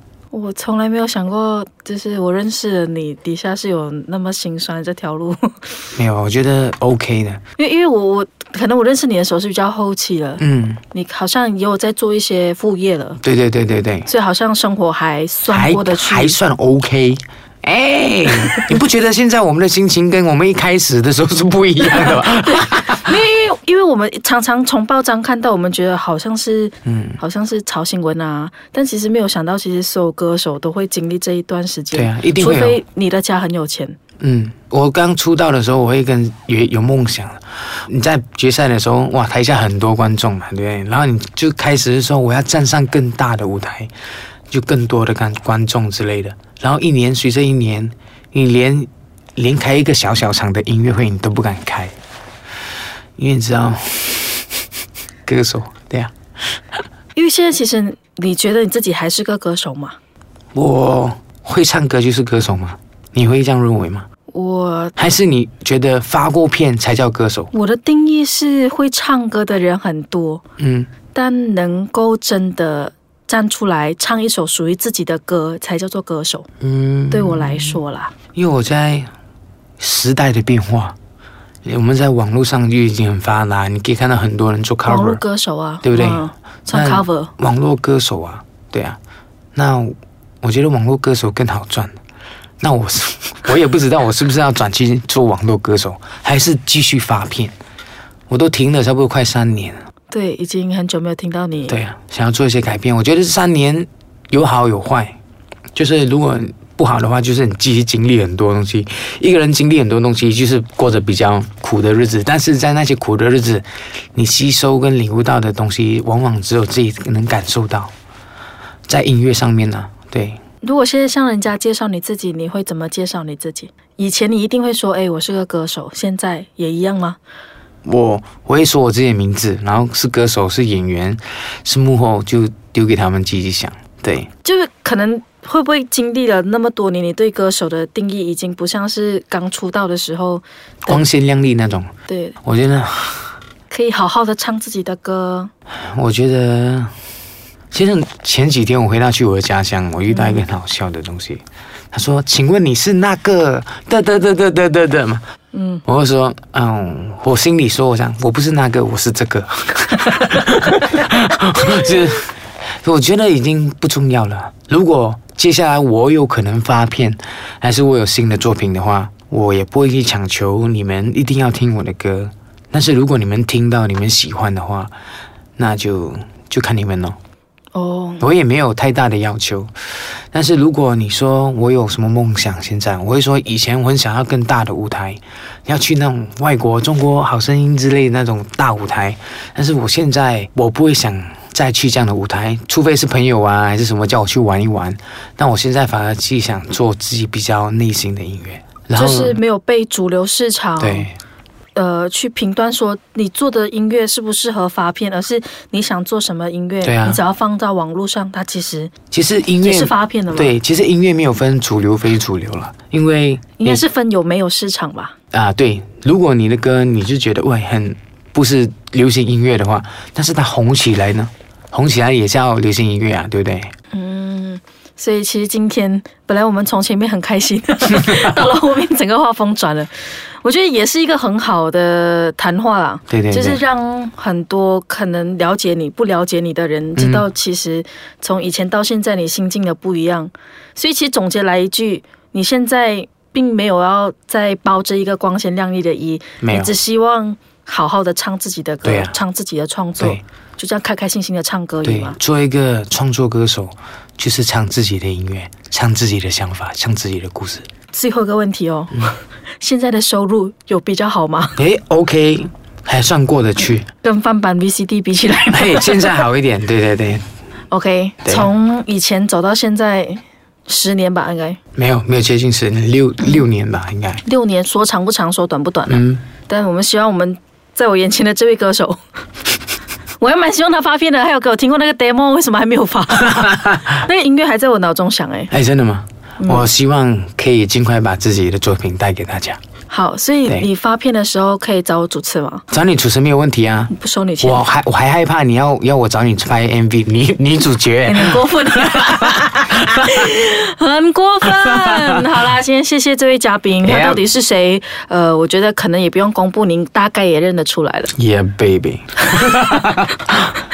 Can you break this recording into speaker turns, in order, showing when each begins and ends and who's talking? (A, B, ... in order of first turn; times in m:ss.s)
0:00.3-0:05.9 A
0:06.0-0:07.4 B
0:07.6-0:13.2 A
0:10.4-0:10.8 B
0:13.2-0:14.1 B
0:14.0-0:16.4 A
0:15.5-0:23.1 B
0:22.4-0:34.0 A
0:26.8-0:27.2 B
0:31.9-0:32.8 B
0:34.2-0:43.9 B
0:44.5-0:51.9 B
0:53.2-0:54.5 B
0:55.2-0:56.1 B
0:57.1-1:00.0 A
1:00.5-1:04.1 B
1:04.3-1:05.0 A
1:05.0-1:07.5 B
1:07.5-1:10.4 A
1:10.6-1:10.9 B
1:11.1-1:16.5 A
1:16.6-1:17.8 B
1:17.1-1:18.1 A
1:18.3-1:19.1 B
1:19.8-1:21.0 B
1:21.6-1:25.2 B
1:24.8-1:27.3 A
1:25.8-1:29.0 B
1:29.5-1:32.0 B
1:32.6-1:37.5 B
1:38.3-1:39.8 B
1:40.1-1:41.8 A
1:41.7-1:45.2 B
1:45.7-1:57.9 B
1:58.9-2:00.4 B
2:00.6-2:07.2 A
2:07.8-2:14.3 B
2:14.4-2:21.0 A
2:20.9-2:21.9 B
2:22.1-2:22.4 A
2:22.4-2:23.3 B
2:23.7-2:25.5 A
2:25.7-2:26.9 B
2:27.7-2:35.2 B
2:30.1-2:30.4 A
2:35.5-2:35.8 A
2:35.8-2:54.9 B
2:55.6-2:57.2 B
2:57.7-2:58.3 A
2:58.2-2:59.7 B
3:00.3-3:19.4 B
3:18.9-3:21.1 A
3:20.8-3:21.2 B
3:21.7-3:28.9 A
3:26.8-3:27.2 B
3:29.1-3:33.8 B
3:29.6-3:30.5 A
3:33.6-3:35.1 A
3:35.3-3:43.7 B
3:43.9-3:49.9 A
3:47.9-3:48.3 B
3:50.4-4:12.2 A
3:53.1-3:53.6 B
3:57.0-3:57.2 B
4:06.4-4:06.7 B
4:08.8-4:09.1 B
4:11.8-4:17.6 B
4:17.9-4:21.6 A
4:18.9-4:19.2 B
4:21.6-4:23.9 B
4:24.0-4:26.2 A
4:25.5-4:27.2 B
4:27.7-4:31.6 A
4:28.2-4:28.5 B
4:31.8-4:34.2 B
4:34.2-4:39.0 A
4:35.9-4:36.2 B
4:40.2-4:45.5 A
4:43.3-4:43.6 B
4:45.5-4:49.6 B
4:46.4-4:46.7 A
4:49.9-4:52.6 A
4:52.7-5:00.2 B
4:53.9-4:54.6 A
4:58.1-5:08.1 A
5:01.5-5:02.3 B
5:03.8-5:04.2 B
5:08.1-5:10.3 B